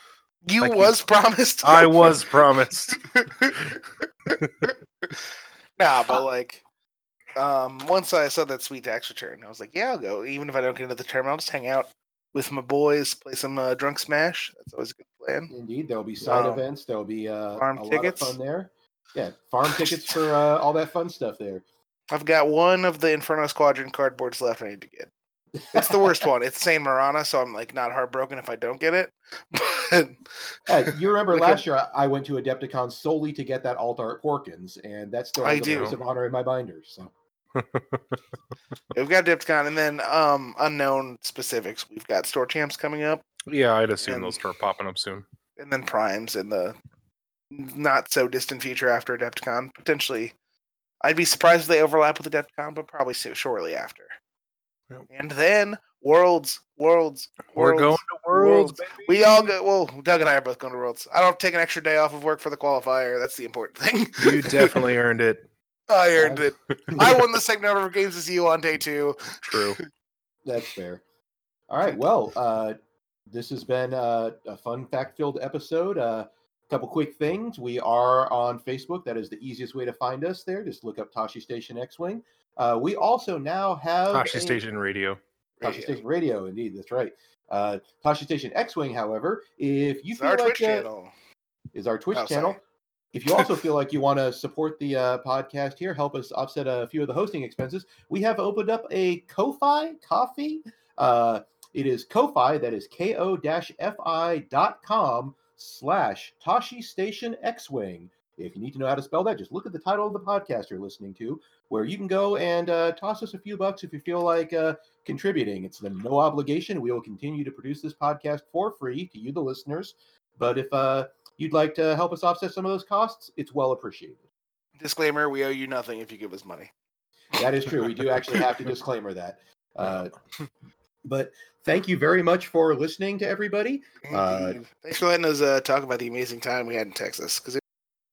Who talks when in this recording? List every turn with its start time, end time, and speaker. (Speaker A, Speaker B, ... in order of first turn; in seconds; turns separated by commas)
Speaker A: 0.5-2.3, Speaker B: 0.6-0.9, Speaker B: 1.6-3.0, Speaker A: 2.9-5.2, Speaker A: 5.8-6.6, Speaker A: 7.3-15.5, Speaker C: 15.5-21.6, Speaker A: 16.2-16.6, Speaker A: 17.6-18.4, Speaker A: 19.7-20.2, Speaker A: 22.1-25.1, Speaker C: 25.6-26.1, Speaker A: 25.7-31.6, Speaker C: 30.7-37.1, Speaker A: 35.4-36.0, Speaker B: 35.6-36.0, Speaker B: 37.5-38.2, Speaker A: 38.9-43.2, Speaker B: 43.5-45.2, Speaker A: 44.0-44.4, Speaker A: 45.6-46.8, Speaker A: 47.5-50.3, Speaker A: 51.0-54.1, Speaker A: 55.1-64.8, Speaker B: 57.5-59.5, Speaker B: 64.2-65.4, Speaker A: 65.9-69.8, Speaker C: 66.2-67.2, Speaker B: 69.5-69.8, Speaker C: 70.4-71.0, Speaker C: 71.7-72.8, Speaker C: 73.3-84.6, Speaker B: 84.1-85.2, Speaker A: 85.6-86.0, Speaker C: 85.6-90.9, Speaker A: 90.2-91.1, Speaker C: 91.7-92.6, Speaker A: 92.1-92.6, Speaker C: 93.1-124.2, Speaker A: 124.8-126.7, Speaker C: 127.3-130.2, Speaker C: 131.1-134.6, Speaker A: 134.0-137.6